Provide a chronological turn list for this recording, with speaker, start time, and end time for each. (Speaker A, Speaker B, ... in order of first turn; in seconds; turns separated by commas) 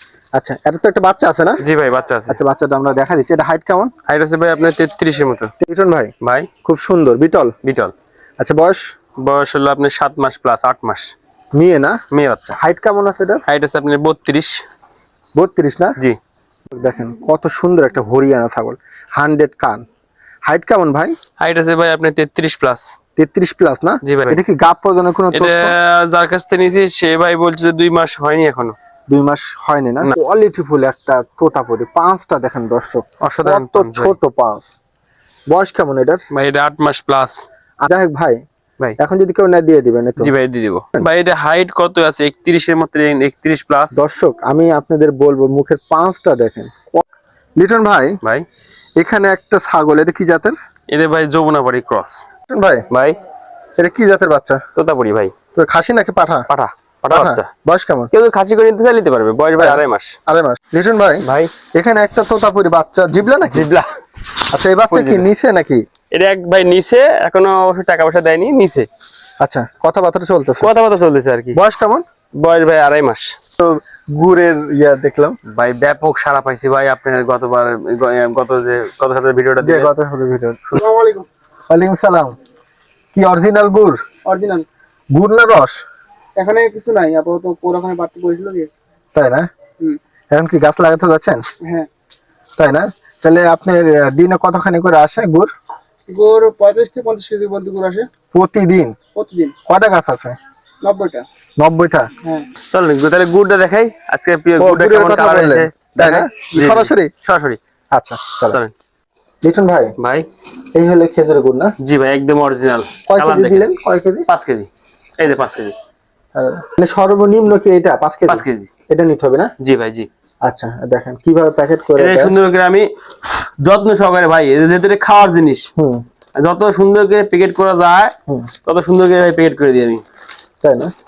Speaker A: 0.3-1.6, Speaker B: 1.6-2.4, Speaker A: 2.3-3.9, Speaker B: 4.1-5.5, Speaker A: 5.6-6.1, Speaker B: 6.2-6.5, Speaker A: 6.6-7.5, Speaker B: 7.6-7.9, Speaker A: 8.4-8.8, Speaker B: 9.2-11.1, Speaker A: 11.5-11.9, Speaker B: 12.1-12.6, Speaker A: 12.6-13.4, Speaker B: 13.5-14.6, Speaker A: 15.3-15.9, Speaker A: 16.7-19.8, Speaker A: 20.4-21.1, Speaker B: 21.4-22.9, Speaker A: 23.2-25.7, Speaker B: 24.0-24.4, Speaker B: 25.3-28.7, Speaker A: 29.1-34.7, Speaker B: 33.2-34.1, Speaker A: 35.5-36.2, Speaker B: 36.3-37.3, Speaker A: 37.8-38.4, Speaker A: 39.0-40.3, Speaker B: 40.2-44.1, Speaker A: 43.9-47.0, Speaker A: 47.6-48.1, Speaker A: 49.0-50.5, Speaker B: 50.9-52.2, Speaker A: 52.5-52.9, Speaker B: 52.9-53.1, Speaker A: 53.8-54.6, Speaker B: 54.8-55.3, Speaker A: 55.5-56.5, Speaker B: 56.5-57.5, Speaker A: 57.1-58.1, Speaker B: 58.1-60.2, Speaker A: 59.6-63.7, Speaker B: 61.2-61.5, Speaker B: 63.5-63.9, Speaker A: 64.5-65.8, Speaker B: 64.9-65.3, Speaker B: 66.1-68.9, Speaker A: 69.4-70.7, Speaker B: 70.6-71.6, Speaker A: 71.5-72.0, Speaker B: 72.4-73.3, Speaker A: 73.6-75.4, Speaker B: 75.5-79.9, Speaker A: 79.6-80.7, Speaker C: 80.8-81.2, Speaker A: 81.7-82.3, Speaker A: 83.1-84.0, Speaker C: 84.3-84.7, Speaker A: 85.1-85.8, Speaker C: 86.4-88.7, Speaker A: 89.1-89.5, Speaker A: 90.3-91.4, Speaker A: 92.6-95.5, Speaker C: 96.1-98.1, Speaker A: 98.3-98.9, Speaker C: 99.1-99.5, Speaker A: 99.7-100.3, Speaker C: 100.8-101.2, Speaker A: 101.6-102.1, Speaker B: 102.7-107.6, Speaker A: 104.6-107.1, Speaker A: 107.9-108.6, Speaker A: 109.4-109.9, Speaker B: 110.0-110.2, Speaker A: 110.7-111.7, Speaker B: 111.8-113.7, Speaker A: 113.1-114.3, Speaker B: 114.3-114.7, Speaker B: 115.2-115.7, Speaker A: 116.3-119.5, Speaker B: 118.3-118.7, Speaker B: 119.6-120.1, Speaker A: 120.4-122.3, Speaker B: 122.0-125.7, Speaker A: 125.8-126.0, Speaker B: 126.4-128.1, Speaker B: 128.6-130.0, Speaker A: 130.6-130.9